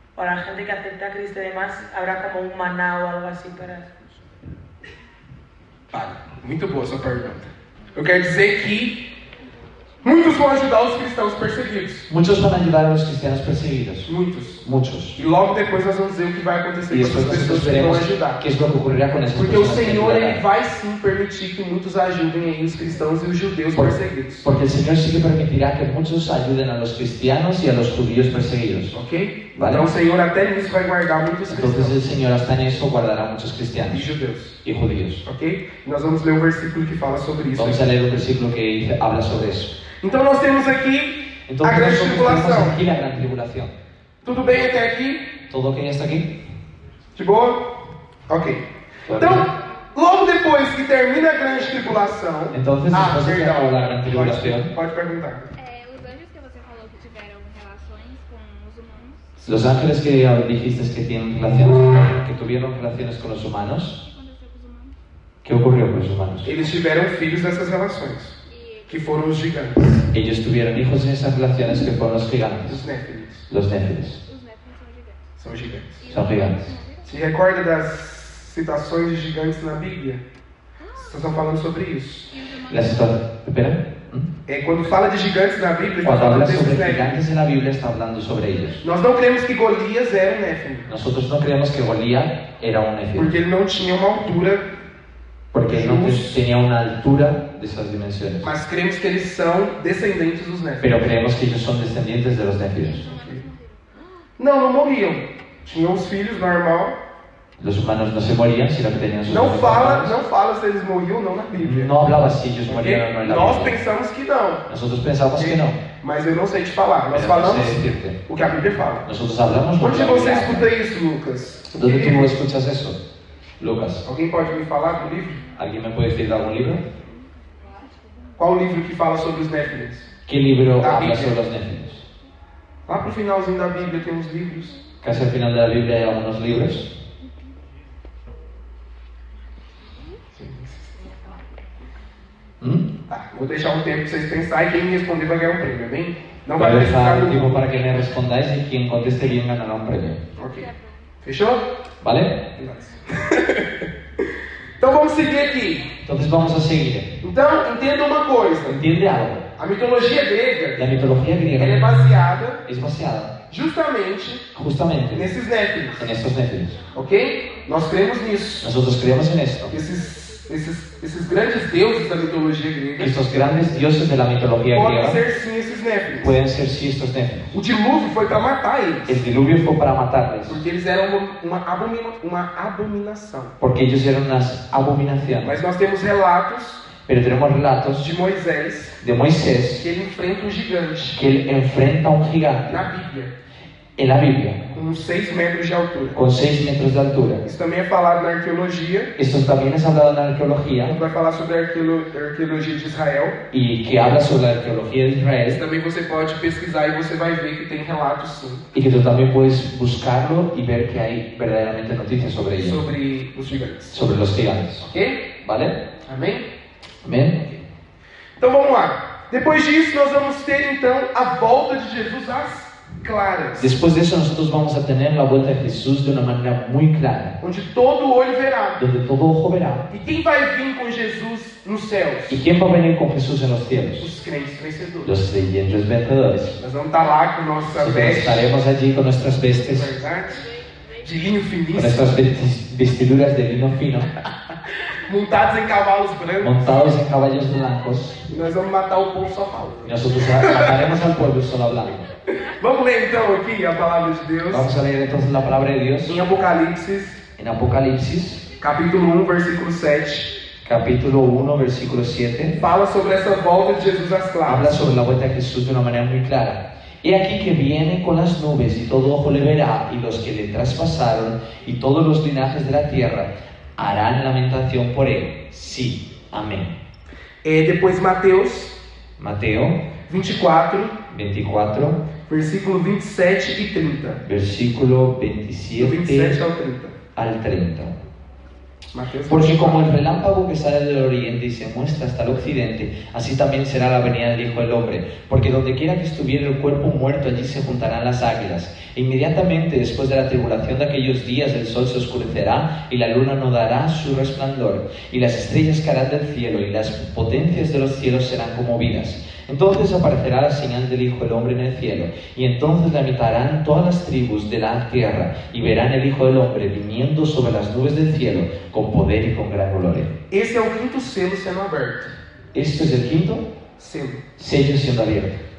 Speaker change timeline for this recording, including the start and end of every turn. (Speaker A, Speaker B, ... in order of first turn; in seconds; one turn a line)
Speaker A: 0.2-3.9
Speaker B: 5.9-9.0
Speaker B: 10.0-12.1
Speaker C: 12.1-14.1
Speaker B: 14.1-14.6
Speaker C: 14.6-15.2
Speaker B: 15.2-18.4
Speaker C: 16.9-20.4
Speaker B: 19.3-24.5
Speaker C: 23.7-29.0
Speaker B: 28.9-32.1
Speaker C: 29.6-29.9
Speaker C: 31.5-34.1
Speaker B: 33.9-34.6
Speaker C: 34.6-35.2
Speaker B: 35.2-37.8
Speaker C: 37.5-39.8
Speaker B: 40.0-42.8
Speaker C: 41.5-43.7
Speaker B: 44.2-45.3
Speaker C: 45.5-46.3
Speaker B: 47.2-47.7
Speaker B: 48.3-55.5
Speaker C: 49.1-49.5
Speaker C: 52.5-54.7
Speaker D: 55.6-59.3
Speaker C: 59.4-64.0
Speaker D: 64.0-65.0
Speaker C: 65.5-66.5
Speaker B: 66.4-68.3
Speaker D: 68.5-69.2
Speaker B: 68.9-70.0
Speaker C: 70.1-72.8
Speaker B: 72.7-73.5
Speaker C: 73.5-74.2
Speaker D: 74.2-75.3
Speaker B: 75.4-76.0
Speaker D: 76.0-77.1
Speaker C: 76.1-76.7
Speaker B: 77.0-80.2
Speaker D: 80.8-81.2
Speaker B: 81.0-82.3
Speaker D: 82.3-83.2
Speaker C: 82.7-84.3
Speaker B: 84.5-87.2
Speaker C: 86.0-88.8
Speaker D: 88.5-88.9
Speaker B: 88.8-90.9
Speaker C: 90.9-93.3
Speaker B: 93.2-94.7
Speaker C: 95.5-98.5
Speaker B: 95.6-96.4
Speaker B: 98.4-101.0
Speaker C: 100.8-103.0
Speaker D: 102.8-104.1
Speaker B: 103.1-103.4
Speaker B: 104.4-107.0
Speaker C: 107.6-110.2
Speaker B: 109.3-111.9
Speaker C: 111.6-113.8
Speaker B: 112.7-114.7
Speaker C: 114.7-115.8
Speaker B: 115.4-119.1
Speaker C: 117.1-118.2
Speaker C: 119.0-120.7
Speaker B: 119.8-122.3
Speaker C: 121.7-123.0
Speaker C: 123.6-124.0
Speaker B: 124.0-125.4
Speaker C: 125.5-126.8
Speaker D: 126.8-128.3
Speaker B: 128.4-130.1
Speaker C: 130.3-132.0
Speaker B: 130.8-131.4
Speaker B: 132.9-134.8
Speaker C: 135.0-136.9
Speaker B: 140.3-141.0
Speaker C: 142.6-142.9
Speaker B: 143.1-147.6
Speaker C: 146.6-150.2
Speaker B: 150.4-150.7
Speaker D: 150.4-151.1
Speaker B: 151.2-151.6
Speaker C: 152.0-152.4
Speaker B: 152.6-155.9
Speaker C: 156.0-157.2
Speaker B: 157.2-158.8
Speaker C: 158.7-159.4
Speaker B: 159.6-160.9
Speaker C: 160.8-162.0
Speaker B: 161.6-162.6
Speaker C: 162.7-163.3
Speaker B: 163.5-164.5
Speaker C: 164.5-165.3
Speaker B: 165.1-166.1
Speaker C: 166.0-166.8
Speaker B: 166.9-168.7
Speaker C: 168.6-169.8
Speaker B: 169.7-173.2
Speaker C: 173.0-175.2
Speaker B: 174.7-176.4
Speaker C: 176.2-177.5
Speaker B: 177.5-179.2
Speaker C: 179.1-180.6
Speaker B: 180.5-183.6
Speaker C: 183.6-185.5
Speaker B: 185.4-186.9
Speaker C: 187.0-188.1
Speaker B: 188.0-189.0
Speaker C: 189.0-189.9
Speaker B: 189.8-191.2
Speaker C: 191.1-192.9
Speaker B: 192.7-193.3
Speaker C: 194.0-194.7
Speaker B: 194.7-196.2
Speaker C: 196.2-197.4
Speaker B: 197.4-199.1
Speaker C: 199.2-201.0
Speaker B: 200.8-203.4
Speaker C: 203.5-205.6
Speaker B: 205.5-208.7
Speaker C: 208.7-212.8
Speaker B: 212.6-214.0
Speaker C: 213.9-214.9
Speaker B: 214.8-215.3
Speaker C: 215.4-215.8
Speaker B: 216.0-216.5
Speaker C: 217.0-217.5
Speaker B: 218.4-223.8
Speaker C: 223.6-227.4
Speaker B: 227.4-228.8
Speaker C: 228.8-229.9
Speaker B: 229.9-232.4
Speaker C: 232.3-234.1
Speaker B: 234.0-235.2
Speaker C: 235.1-236.6
Speaker B: 236.6-238.5
Speaker C: 237.8-239.9
Speaker B: 239.7-240.5
Speaker D: 240.3-241.3
Speaker B: 241.0-242.1
Speaker C: 241.7-244.1
Speaker B: 244.9-246.9
Speaker C: 246.4-248.3
Speaker B: 248.3-250.8
Speaker C: 249.8-252.1
Speaker B: 252.3-254.7
Speaker C: 254.5-256.2
Speaker B: 256.0-257.2
Speaker C: 257.4-258.5
Speaker B: 258.6-260.4
Speaker C: 260.6-262.6
Speaker B: 262.6-264.8
Speaker C: 264.5-276.8
Speaker B: 277.4-278.8
Speaker C: 279.2-279.9
Speaker B: 280.1-281.0
Speaker C: 281.1-282.1
Speaker B: 282.3-284.2
Speaker C: 284.2-286.4
Speaker B: 285.8-287.0
Speaker C: 287.1-287.9
Speaker B: 288.9-290.0
Speaker C: 289.3-320.1
Speaker B: 320.3-322.1
Speaker C: 322.5-323.5
Speaker B: 323.8-324.2
Speaker C: 324.4-325.4